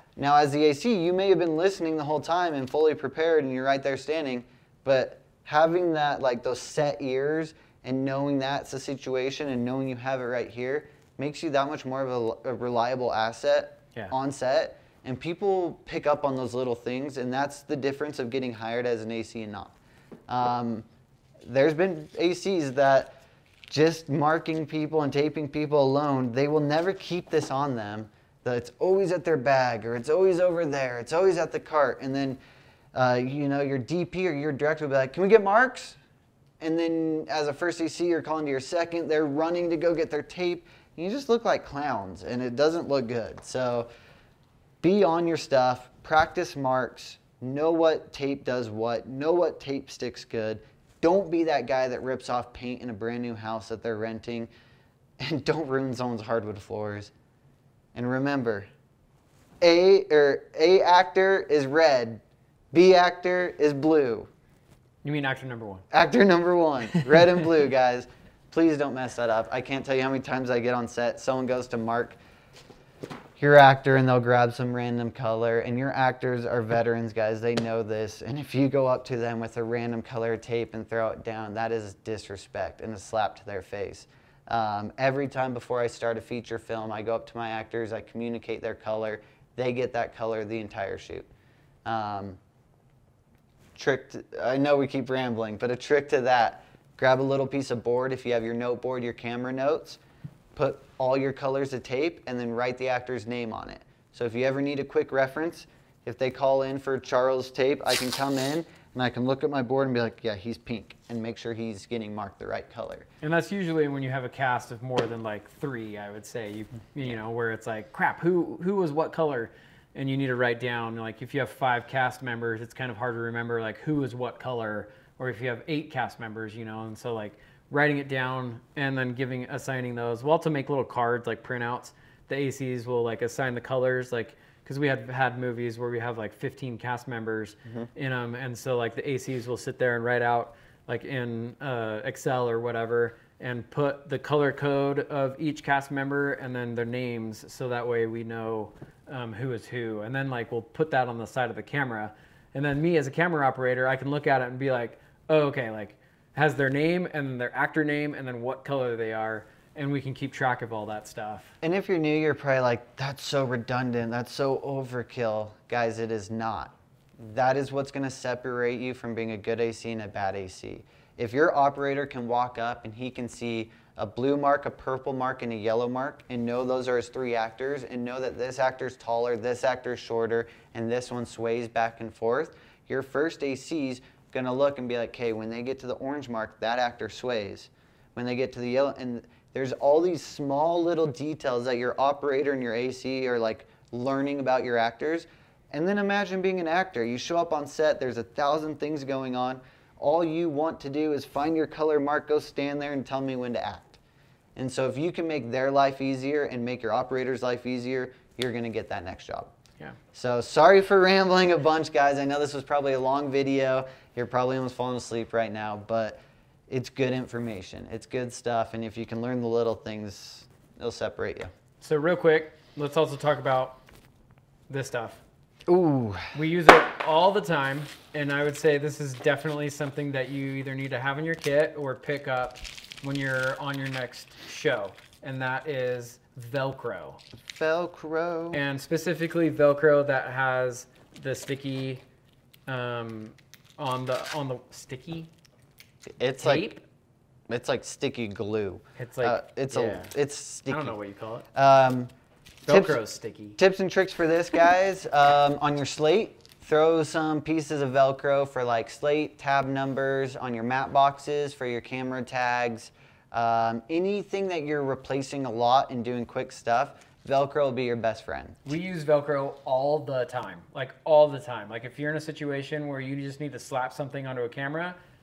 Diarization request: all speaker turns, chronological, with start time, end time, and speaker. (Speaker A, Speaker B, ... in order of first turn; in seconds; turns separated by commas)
Speaker A: 0.2-19.8, Speaker A: 20.3-20.9, Speaker A: 21.4-23.2, Speaker A: 23.7-32.4, Speaker A: 32.9-36.0, Speaker A: 36.6-43.9, Speaker A: 44.8-54.5, Speaker A: 55.2-57.1, Speaker A: 57.9-58.7, Speaker A: 59.6-64.3, Speaker B: 65.0-65.8, Speaker A: 65.9-72.2, Speaker B: 66.9-67.3, Speaker A: 73.4-91.3, Speaker A: 91.9-92.4, Speaker A: 93.8-100.0, Speaker A: 100.5-113.1, Speaker B: 113.2-161.6, Speaker A: 161.6-204.0, Speaker A: 204.6-209.5, Speaker A: 210.1-221.5, Speaker B: 221.8-223.8, Speaker B: 224.7-225.2, Speaker A: 225.7-226.3, Speaker B: 226.3-237.2, Speaker A: 237.6-238.6, Speaker B: 238.5-242.0, Speaker B: 242.7-245.3, Speaker A: 246.2-246.7, Speaker B: 246.4-246.8, Speaker A: 247.5-251.0, Speaker B: 249.0-250.1, Speaker B: 250.7-251.5, Speaker A: 251.5-252.1, Speaker B: 252.7-253.6, Speaker A: 252.7-253.0, Speaker A: 253.6-268.6, Speaker B: 268.6-275.0